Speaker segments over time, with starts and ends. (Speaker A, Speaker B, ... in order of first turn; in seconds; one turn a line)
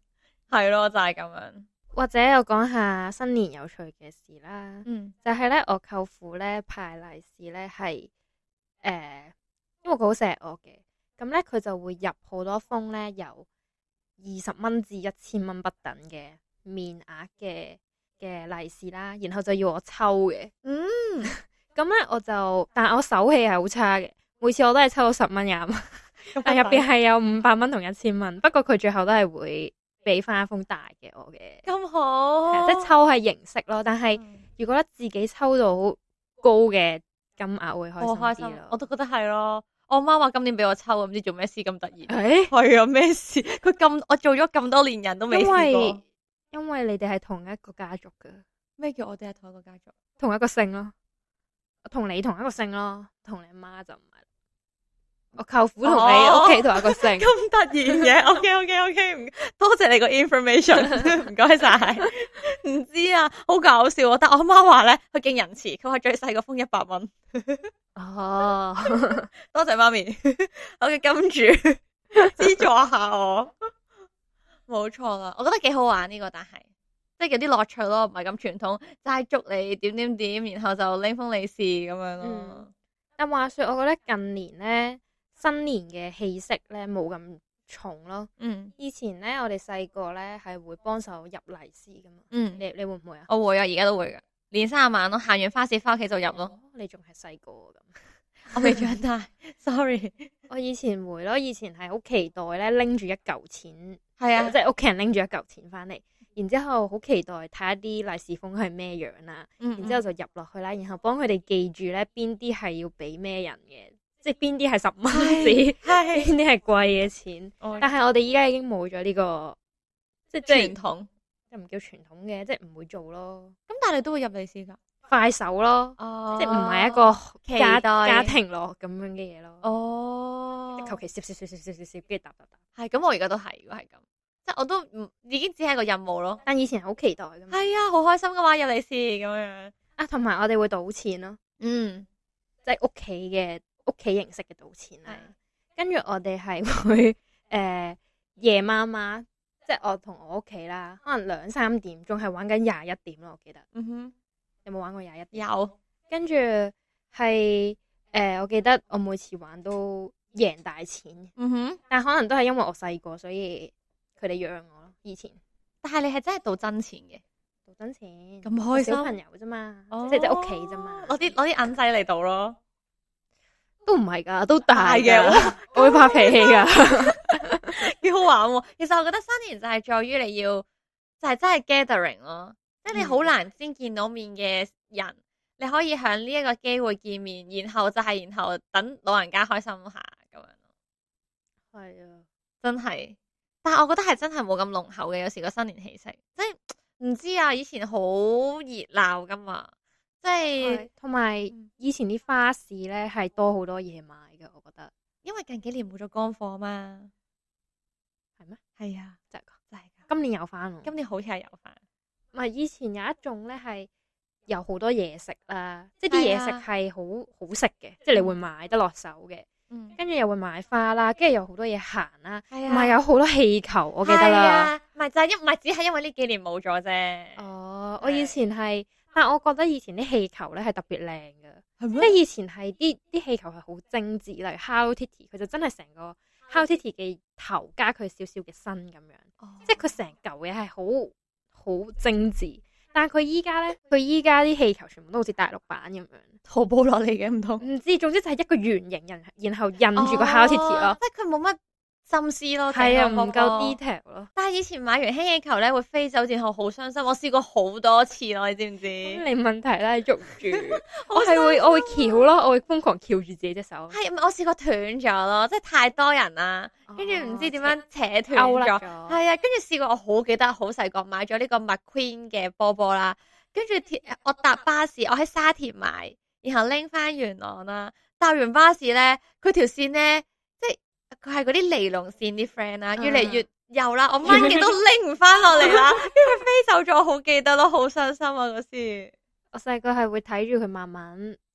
Speaker A: 0.5-1.7
Speaker B: 1.9-8.1
Speaker A: 4.8-5.1
Speaker B: 8.8-9.3
Speaker B: 9.8-13.4
Speaker B: 14.2-20.5
Speaker A: 20.6-21.3
Speaker B: 21.2-31.6
Speaker A: 26.3-26.9
Speaker A: 31.6-32.9
Speaker B: 32.5-38.8
Speaker A: 34.1-34.4
Speaker A: 38.0-46.0
Speaker B: 42.1-42.5
Speaker B: 45.3-48.4
Speaker A: 48.8-49.9
Speaker B: 50.2-50.9
Speaker B: 51.9-54.1
Speaker B: 55.4-57.3
Speaker A: 55.8-67.7
Speaker B: 68.0-69.3
Speaker A: 69.5-73.5
Speaker A: 74.7-76.6
Speaker A: 77.2-82.7
Speaker B: 82.2-82.7
Speaker B: 83.2-93.3
Speaker A: 88.4-88.7
Speaker A: 92.3-92.6
Speaker A: 93.3-96.5
Speaker B: 96.3-98.0
Speaker A: 98.5-100.3
Speaker B: 100.5-119.6
Speaker A: 104.2-104.5
Speaker A: 109.6-110.0
Speaker A: 115.1-116.3
Speaker A: 117.6-117.9
Speaker B: 120.3-120.8
Speaker A: 120.5-121.1
Speaker B: 121.5-123.5
Speaker A: 123.7-124.8
Speaker B: 125.1-129.6
Speaker A: 126.0-128.3
Speaker A: 129.6-131.0
Speaker B: 130.8-132.5
Speaker A: 132.8-136.4
Speaker B: 136.4-137.7
Speaker A: 137.5-139.7
Speaker B: 140.0-141.4
Speaker A: 141.6-142.1
Speaker B: 142.7-153.7
Speaker A: 153.7-154.1
Speaker B: 154.7-155.5
Speaker A: 155.3-155.7
Speaker B: 156.1-161.3
Speaker A: 161.4-161.8
Speaker B: 161.9-165.4
Speaker A: 165.8-167.2
Speaker B: 167.7-171.3
Speaker A: 168.4-169.1
Speaker A: 169.9-172.6
Speaker B: 173.9-177.7
Speaker A: 174.7-177.2
Speaker A: 177.7-180.7
Speaker A: 181.2-190.5
Speaker B: 182.9-183.3
Speaker B: 191.7-192.2
Speaker A: 192.6-199.7
Speaker A: 200.2-200.9
Speaker B: 200.6-204.9
Speaker A: 205.2-207.1
Speaker A: 208.8-209.2
Speaker B: 210.1-210.9
Speaker A: 210.8-211.8
Speaker B: 212.3-213.9
Speaker B: 214.5-224.7
Speaker A: 216.1-216.6
Speaker A: 219.7-220.0
Speaker A: 222.5-223.0
Speaker A: 224.0-227.4
Speaker B: 227.4-246.4
Speaker A: 228.0-228.4
Speaker A: 231.8-232.2
Speaker A: 239.4-239.8
Speaker A: 246.5-247.6
Speaker B: 247.6-251.0
Speaker A: 250.0-253.8
Speaker B: 252.7-254.3
Speaker A: 254.3-259.2
Speaker B: 259.0-264.0
Speaker A: 260.5-262.3
Speaker A: 263.9-289.1
Speaker B: 266.9-267.8
Speaker B: 268.3-269.2
Speaker B: 283.0-283.4
Speaker B: 284.2-284.8
Speaker B: 285.6-286.2
Speaker B: 289.5-291.4